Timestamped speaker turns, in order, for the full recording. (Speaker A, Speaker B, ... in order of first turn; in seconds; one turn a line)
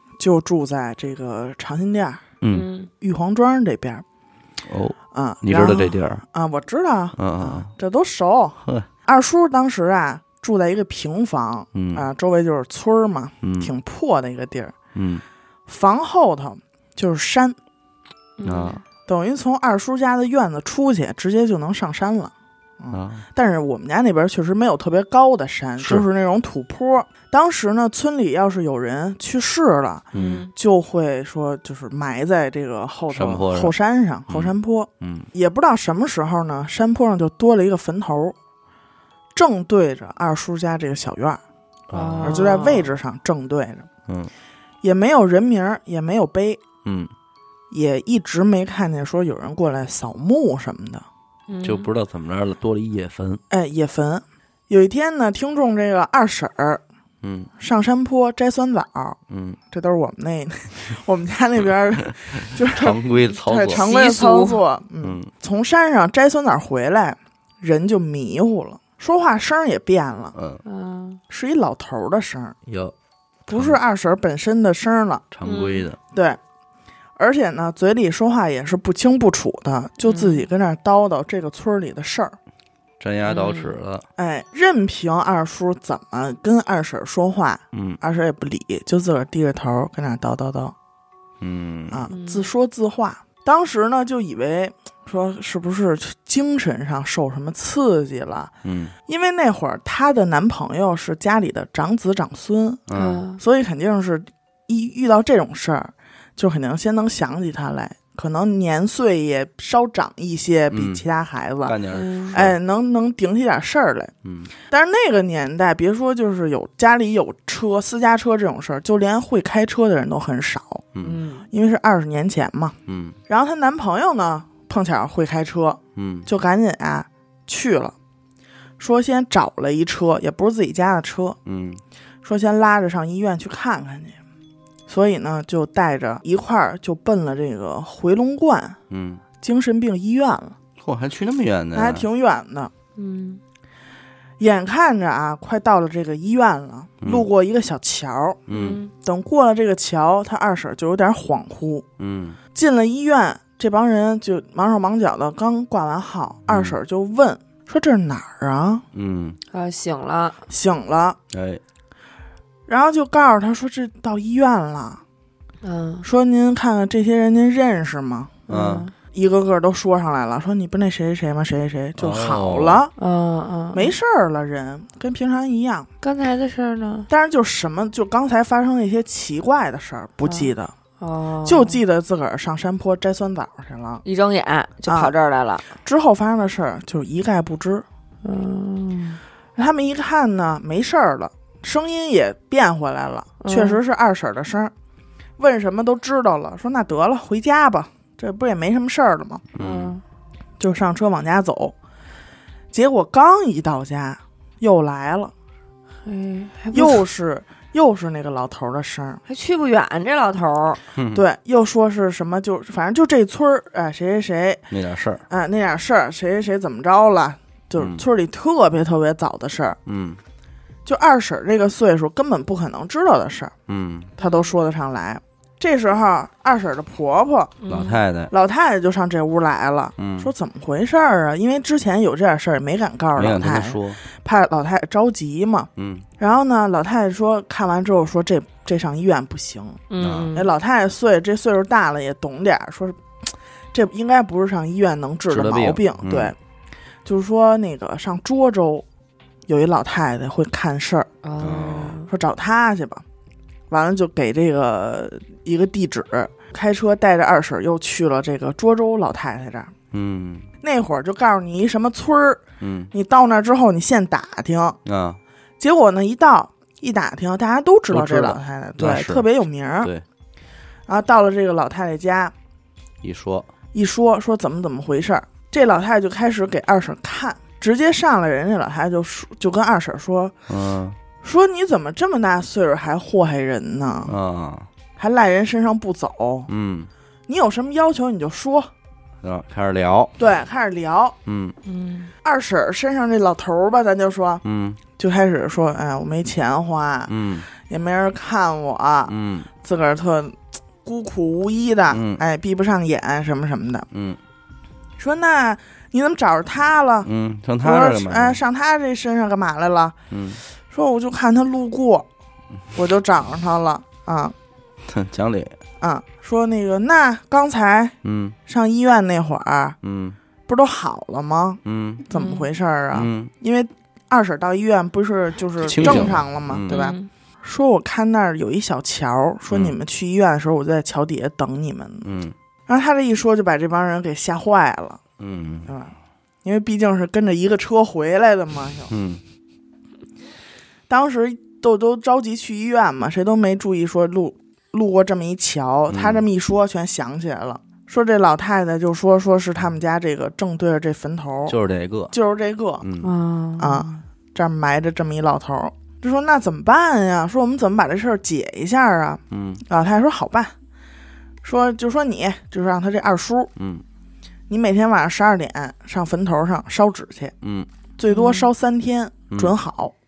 Speaker A: 0.2-2.3
Speaker B: 2.4-2.7
Speaker C: 2.5-2.9
Speaker A: 3.0-4.0
Speaker B: 4.7-6.2
Speaker A: 5.1-14.8
Speaker B: 7.2-7.7
Speaker B: 11.7-12.1
Speaker B: 13.4-13.7
Speaker B: 14.9-15.2
Speaker A: 15.7-17.6
Speaker C: 18.4-18.8
Speaker B: 18.4-18.8
Speaker A: 19.1-38.4
Speaker B: 22.9-23.2
Speaker B: 25.8-26.1
Speaker B: 30.1-30.4
Speaker C: 30.1-30.5
Speaker B: 33.1-33.7
Speaker B: 34.3-35.3
Speaker A: 39.3-41.4
Speaker B: 41.9-42.7
Speaker C: 41.9-42.9
Speaker A: 42.2-43.9
Speaker A: 44.8-46.6
Speaker B: 46.9-47.1
Speaker A: 47.7-51.1
Speaker C: 51.5-51.9
Speaker B: 51.6-53.4
Speaker A: 53.5-56.8
Speaker B: 57.2-57.5
Speaker A: 57.6-59.2
Speaker B: 59.3-59.6
Speaker A: 59.7-70.3
Speaker B: 62.3-63.9
Speaker C: 63.7-64.6
Speaker B: 65.0-65.3
Speaker B: 70.4-70.6
Speaker C: 70.7-71.2
Speaker A: 71.3-72.6
Speaker B: 72.7-72.9
Speaker A: 73.5-75.3
Speaker B: 73.5-73.8
Speaker B: 75.3-76.0
Speaker C: 75.5-75.9
Speaker A: 76.1-76.4
Speaker A: 77.2-82.4
Speaker C: 80.0-80.5
Speaker B: 83.0-84.0
Speaker C: 83.2-83.8
Speaker A: 84.2-90.8
Speaker B: 87.7-88.0
Speaker B: 91.4-92.1
Speaker A: 91.9-98.5
Speaker C: 92.1-92.5
Speaker B: 98.6-98.9
Speaker A: 99.1-102.8
Speaker B: 102.9-103.2
Speaker C: 102.9-103.4
Speaker A: 103.4-111.8
Speaker B: 110.7-111.0
Speaker B: 111.7-112.6
Speaker C: 111.9-112.3
Speaker A: 112.3-114.1
Speaker B: 114.2-114.5
Speaker A: 114.7-120.8
Speaker C: 121.0-121.5
Speaker A: 121.5-122.8
Speaker B: 122.9-123.2
Speaker A: 123.3-128.0
Speaker B: 126.0-126.3
Speaker A: 128.8-131.4
Speaker B: 131.5-131.8
Speaker A: 132.2-134.2
Speaker A: 134.9-138.8
Speaker B: 138.9-139.2
Speaker A: 139.4-140.6
Speaker B: 140.8-142.1
Speaker A: 141.7-142.7
Speaker C: 143.0-143.4
Speaker A: 144.4-148.4
Speaker B: 148.5-148.8
Speaker C: 148.5-148.9
Speaker A: 149.0-151.9
Speaker B: 152.0-152.4
Speaker A: 152.6-158.8
Speaker B: 156.5-156.8
Speaker B: 158.9-159.4
Speaker C: 159.5-160.4
Speaker A: 160.5-161.2
Speaker B: 161.3-161.6
Speaker A: 162.7-165.0
Speaker C: 165.6-166.1
Speaker A: 166.0-168.4
Speaker C: 168.5-168.9
Speaker B: 168.5-168.9
Speaker A: 169.1-172.9
Speaker B: 172.0-172.8
Speaker C: 173.0-173.9
Speaker A: 173.7-175.9
Speaker C: 176.0-177.1
Speaker A: 177.1-180.7
Speaker C: 180.3-181.8
Speaker A: 181.4-184.0
Speaker C: 184.1-185.6
Speaker A: 184.9-185.1
Speaker A: 185.7-187.8
Speaker C: 188.2-189.2
Speaker A: 189.6-194.7
Speaker C: 193.4-193.8
Speaker A: 195.4-199.4
Speaker B: 199.6-200.0
Speaker C: 199.6-200.0
Speaker A: 200.6-201.8
Speaker A: 202.7-205.3
Speaker C: 206.1-207.0
Speaker A: 206.7-209.2
Speaker C: 209.3-210.8
Speaker B: 211.0-211.2
Speaker A: 211.1-214.6
Speaker B: 214.7-215.2
Speaker A: 215.3-219.8
Speaker B: 217.8-218.0
Speaker B: 219.9-220.2
Speaker A: 220.8-223.5
Speaker B: 223.7-224.1
Speaker A: 224.2-227.6
Speaker C: 224.2-224.5
Speaker C: 227.6-228.0
Speaker B: 227.7-228.3
Speaker A: 228.3-235.7
Speaker B: 230.0-230.3
Speaker B: 233.2-234.0
Speaker B: 235.8-236.1
Speaker A: 236.2-243.0
Speaker C: 239.9-240.5
Speaker B: 240.0-240.3
Speaker A: 243.7-246.4
Speaker B: 245.3-246.3
Speaker A: 247.1-248.8
Speaker A: 249.5-251.1
Speaker C: 251.2-252.1
Speaker B: 251.4-252.0
Speaker A: 252.1-253.0
Speaker A: 253.7-259.7
Speaker B: 259.9-260.5
Speaker A: 260.6-264.8
Speaker B: 262.6-262.9
Speaker B: 264.9-265.2
Speaker A: 265.6-269.9
Speaker B: 267.9-269.3
Speaker A: 270.9-272.3
Speaker B: 273.0-273.5
Speaker A: 273.7-280.3
Speaker B: 280.5-281.0
Speaker A: 281.2-284.1
Speaker B: 284.1-284.7
Speaker A: 285.0-286.5
Speaker B: 286.5-286.9
Speaker A: 287.3-288.7
Speaker B: 289.2-290.1
Speaker A: 290.2-291.2
Speaker B: 291.3-291.6
Speaker C: 291.6-292.1
Speaker A: 292.2-294.4
Speaker B: 294.4-294.8
Speaker A: 295.0-303.9
Speaker B: 297.1-297.5
Speaker B: 299.1-299.5
Speaker B: 301.9-302.2
Speaker B: 303.9-304.2
Speaker A: 305.0-307.1
Speaker B: 307.1-308.4
Speaker A: 307.6-309.9
Speaker B: 310.1-310.4
Speaker A: 310.7-312.1
Speaker A: 312.7-314.4
Speaker B: 314.9-315.6
Speaker A: 315.8-318.0
Speaker B: 318.0-318.4
Speaker A: 318.5-319.8
Speaker B: 319.8-320.2
Speaker A: 320.5-332.1
Speaker B: 321.7-322.1
Speaker C: 322.1-322.5
Speaker B: 322.9-323.3
Speaker B: 325.6-326.8
Speaker C: 325.8-326.1
Speaker C: 326.7-327.1
Speaker B: 332.1-332.4
Speaker A: 332.7-335.0
Speaker B: 335.2-335.7
Speaker A: 335.7-338.9
Speaker B: 338.9-339.2
Speaker A: 340.9-351.6
Speaker B: 345.9-346.2
Speaker B: 351.5-352.1
Speaker A: 352.1-352.9
Speaker B: 352.8-353.1
Speaker C: 353.0-353.9
Speaker A: 353.6-360.5
Speaker B: 359.3-359.6
Speaker A: 361.4-363.5
Speaker B: 363.6-363.8
Speaker A: 364.5-367.3
Speaker B: 367.4-367.7
Speaker A: 368.0-369.9
Speaker C: 368.1-368.5
Speaker B: 369.3-369.6